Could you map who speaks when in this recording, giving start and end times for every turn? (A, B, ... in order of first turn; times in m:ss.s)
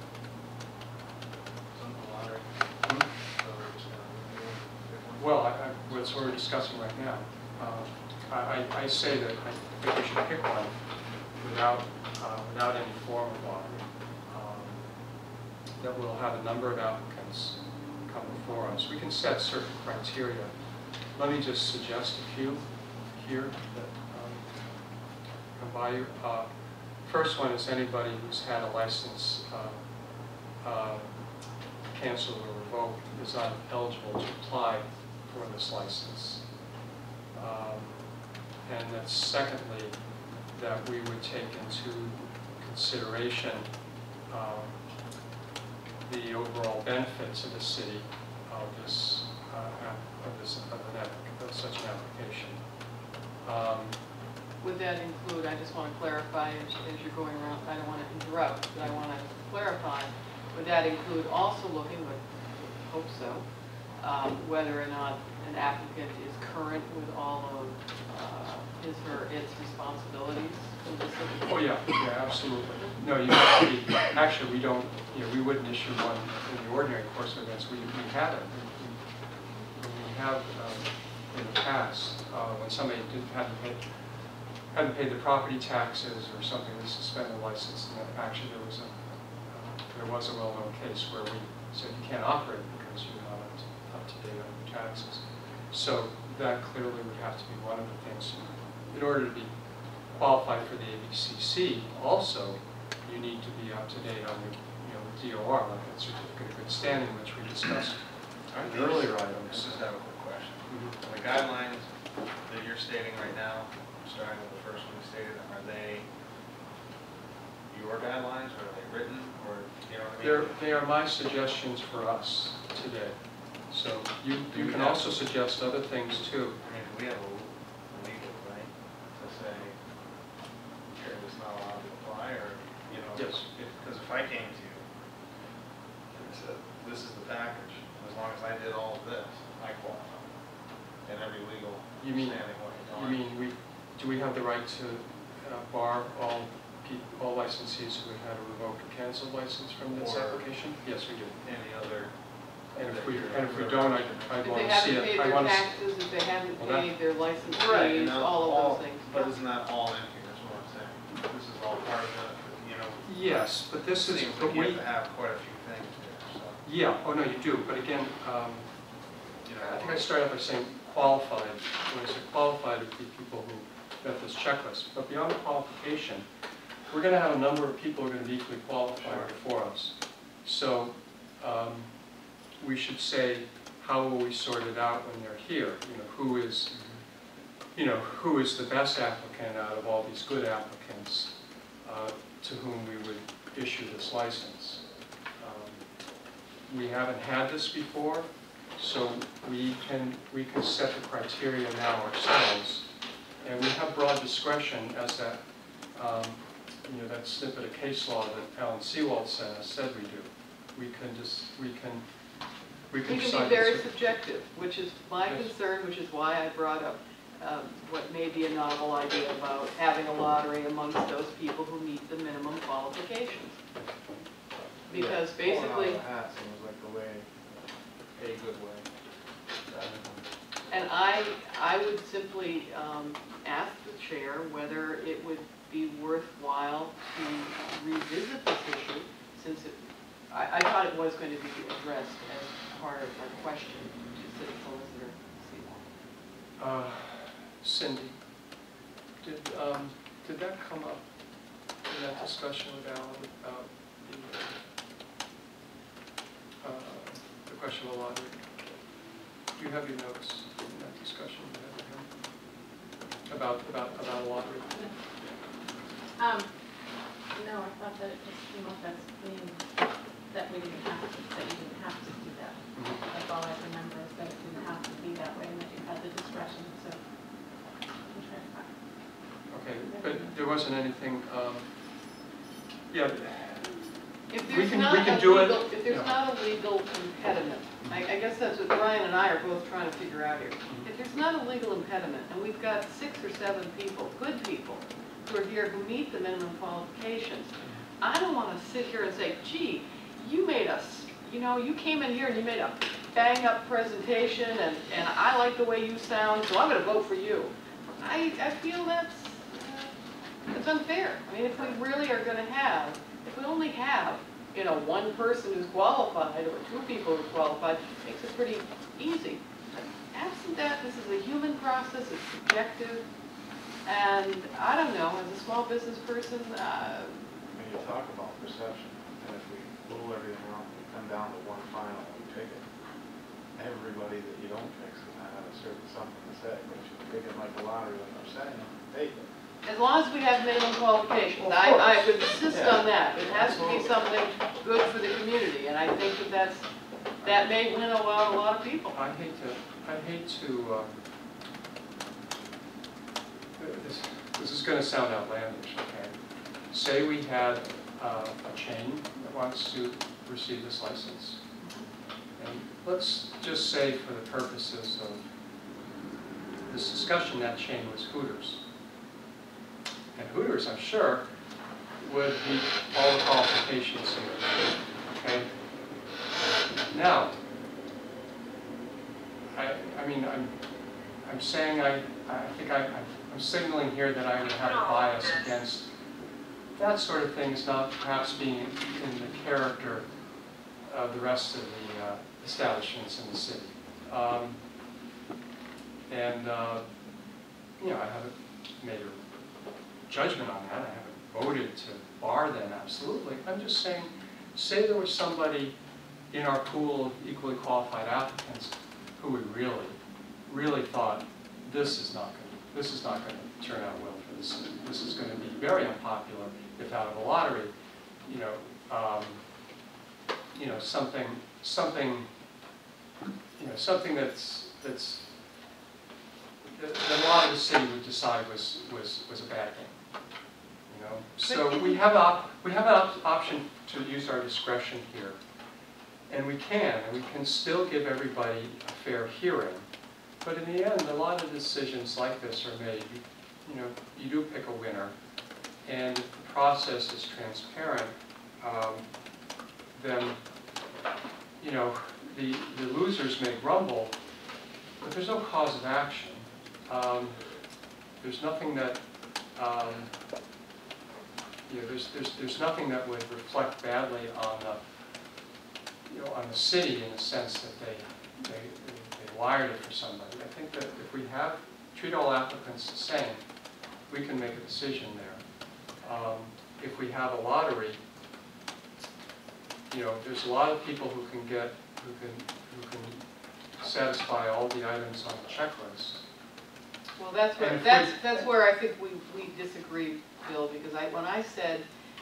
0:01.7-0:02.5 A
0:03.3-0:06.2 A
0:05.2-0:10.8 B
0:11.4-0:14.8 B
0:15.8-0:20.5 B
0:21.2-0:24.5 B
0:25.6-0:26.5 B
0:27.0-0:29.8 B
0:30.6-0:31.2 B
0:31.9-0:36.5 B
0:37.3-0:38.1 B
0:38.7-0:40.0 B
0:40.5-0:43.7 B
0:44.3-0:44.7 B
0:46.1-0:52.6 B
0:53.4-0:54.0 B
0:54.6-1:03.5 C
1:04.0-1:11.8 C
1:11.5-1:19.0 B
1:19.8-1:24.0 B
1:24.7-1:39.6 B
1:40.1-1:49.8 B
1:48.5-1:51.9 A
1:50.7-1:51.0 B
1:52.4-1:56.1 A
1:57.7-2:00.6 A
2:00.2-2:03.2 B
2:03.7-2:06.6 B
2:04.5-2:05.2 A
2:06.6-2:09.8 A
2:10.9-2:14.9 A
2:13.2-2:13.5 B
2:16.1-2:20.4 A
2:21.0-2:23.2 A
2:22.0-2:31.4 B
2:29.9-2:30.5 A
2:31.4-2:32.2 A
2:32.7-2:35.8 B
2:32.8-2:35.0 A
2:34.4-2:39.4 C
2:36.6-2:36.9 B
2:37.6-2:46.6 A
2:43.0-2:44.8 B
2:46.6-2:48.7 B
2:49.4-2:50.1 A
2:49.6-2:56.3 B
2:56.9-3:02.0 B
2:59.0-2:59.4 A
3:02.6-3:06.8 B
3:06.7-3:07.0 A
3:07.8-3:14.9 B
3:15.4-3:15.9 B
3:16.7-3:22.9 B
3:23.4-3:32.0 B
3:32.9-3:33.9 B
3:33.1-3:43.6 C
3:35.3-3:35.5 B
3:44.6-3:48.9 A
3:44.9-3:46.0 C
3:49.7-3:50.3 A
3:50.7-3:59.8 C
4:00.3-4:05.8 C
4:06.6-4:08.2 B
4:09.2-4:11.0 B
4:11.8-4:14.6 B
4:16.6-4:18.5 B
4:19.6-4:22.1 B
4:23.3-4:24.7 B
4:24.7-4:25.0 D
4:26.2-4:26.8 D
4:27.3-4:29.7 D
4:30.3-4:37.0 D
4:32.8-4:33.0 B
4:38.1-4:38.7 D
4:39.5-4:41.7 B
4:39.9-4:40.4 D
4:42.9-4:43.9 B
4:44.3-5:10.0 C
4:44.5-4:46.2 B
5:10.5-5:23.0 C
5:23.8-5:27.3 C
5:27.6-5:32.6 A
5:33.6-5:39.3 A
5:39.6-5:46.7 C
5:41.4-5:43.9 B
5:47.2-5:49.0 C
5:48.9-5:51.0 B
5:53.6-5:56.2 B
5:56.7-6:01.4 B
6:01.6-6:01.9 C
6:02.4-6:05.3 B
6:06.7-6:08.6 B
6:10.2-6:11.2 B
6:12.0-6:15.5 B
6:16.9-6:17.4 B
6:19.5-6:20.6 B
6:21.2-6:25.9 B
6:26.8-6:30.1 B
6:30.8-6:34.6 B
6:36.1-6:36.8 B
6:37.8-6:39.2 B
6:40.1-6:45.8 B
6:46.3-6:57.7 B
6:58.2-6:59.4 B
7:00.5-7:02.3 B
7:03.6-7:05.3 B
7:06.8-7:10.0 B
7:10.9-7:15.4 B
7:16.3-7:19.9 B
7:20.4-7:25.1 B
7:25.8-7:29.1 B
7:29.9-7:30.4 B
7:31.6-7:34.2 B
7:35.0-7:37.4 B
7:38.2-7:39.0 B
7:39.6-7:40.1 B
7:41.7-7:44.8 B
7:46.1-7:53.4 B
7:54.1-7:55.4 B
7:56.0-7:58.0 B
7:59.9-8:03.2 B
8:03.8-8:06.2 B
8:07.2-8:11.9 C
8:07.6-8:08.2 B